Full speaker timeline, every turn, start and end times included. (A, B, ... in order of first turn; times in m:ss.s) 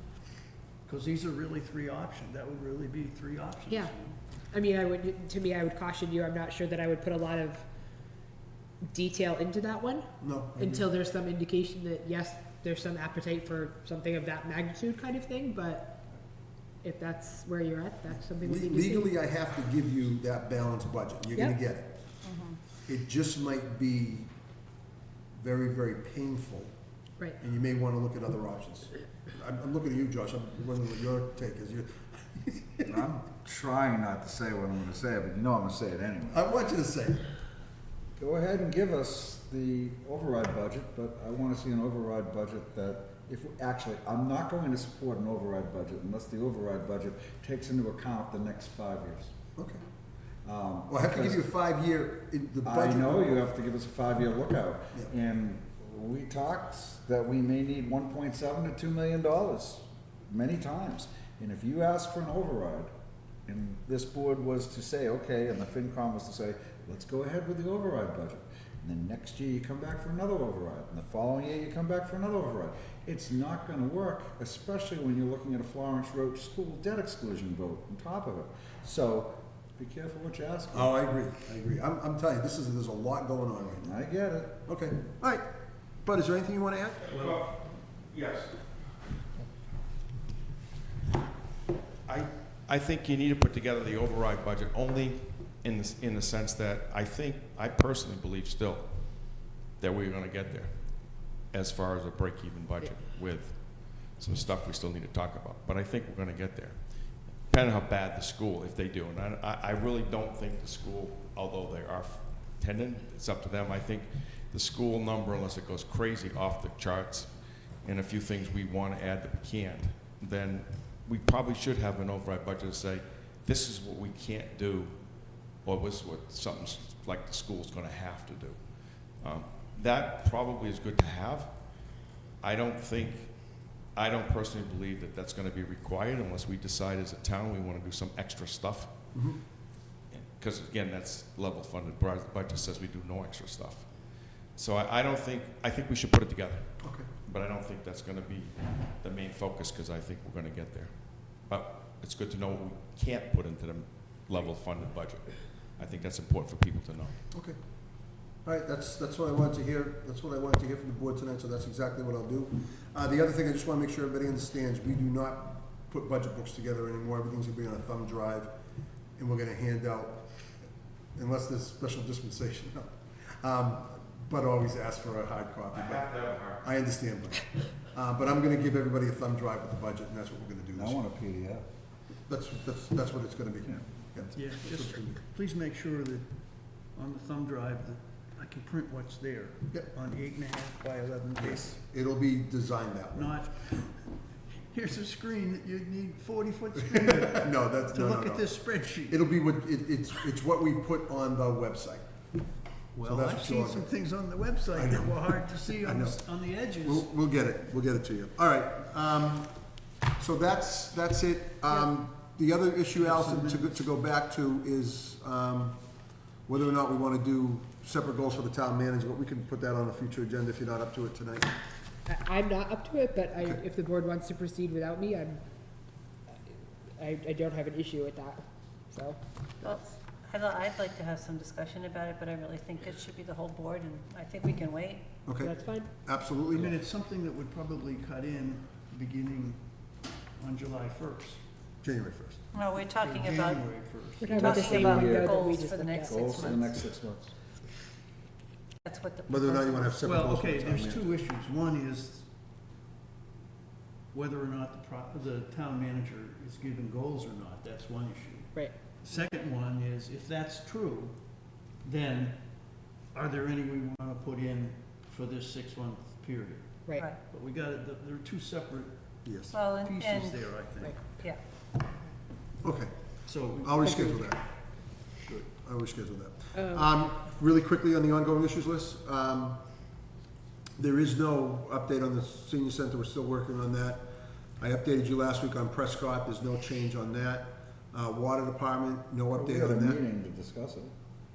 0:00.9-0:04.2 A
0:04.5-0:07.7 B
0:08.9-0:16.0 B
0:10.2-0:10.9 C
0:16.8-0:19.1 B
0:18.4-0:22.1 C
0:22.2-0:22.6 D
0:22.8-0:24.3 C
0:25.4-0:26.7 C
0:27.4-0:33.0 C
0:32.9-0:36.4 E
0:36.3-0:37.2 C
0:38.2-0:49.3 E
0:50.4-0:51.5 E
0:50.9-0:53.5 C
0:52.6-1:02.9 E
1:03.5-1:21.0 E
1:20.7-1:23.9 C
1:23.8-1:24.6 E
1:24.7-1:25.5 C
1:26.0-1:27.5 C
1:27.1-1:28.6 F
1:32.1-2:05.0 F
2:05.5-2:08.6 F
2:09.2-2:18.9 F
2:19.1-2:19.4 C
2:20.1-2:37.2 F
2:26.8-2:27.1 C
2:37.3-2:37.6 C
2:38.4-2:48.5 C
2:49.2-2:50.3 C
2:51.2-3:01.0 C
2:55.7-2:56.7 F
3:00.8-3:01.6 E
3:02.3-3:05.2 C
3:04.3-3:11.8 A
3:11.4-3:13.4 C
3:13.2-3:14.1 A
3:14.7-3:19.2 A
3:16.9-3:22.1 C
3:23.0-3:23.9 C
3:23.0-3:27.1 A
3:24.7-3:26.2 C
3:26.8-3:29.6 C
3:30.2-3:35.8 C
3:33.0-3:33.8 A
3:36.5-3:41.5 C
3:42.1-3:45.4 B
3:47.0-3:49.2 B
3:49.6-3:55.1 D
3:55.2-3:56.7 C
3:55.4-3:55.9 B
3:56.5-4:01.4 A
4:01.8-4:02.4 C
4:02.5-4:03.8 D
4:02.8-4:04.7 A
4:04.2-4:06.3 B
4:04.3-4:06.8 D
4:04.4-4:05.5 E
4:06.0-4:07.4 E
4:08.8-4:10.0 D
4:09.3-4:11.1 C
4:10.0-4:12.3 A
4:14.1-4:29.0 A
4:29.2-4:29.6 C
4:29.5-4:31.4 D
4:29.6-4:31.2 A
4:32.6-4:34.5 C
4:33.2-4:34.4 A
4:35.1-4:39.6 C
4:36.5-4:36.8 B
4:40.8-4:50.0 C
4:49.3-4:50.9 E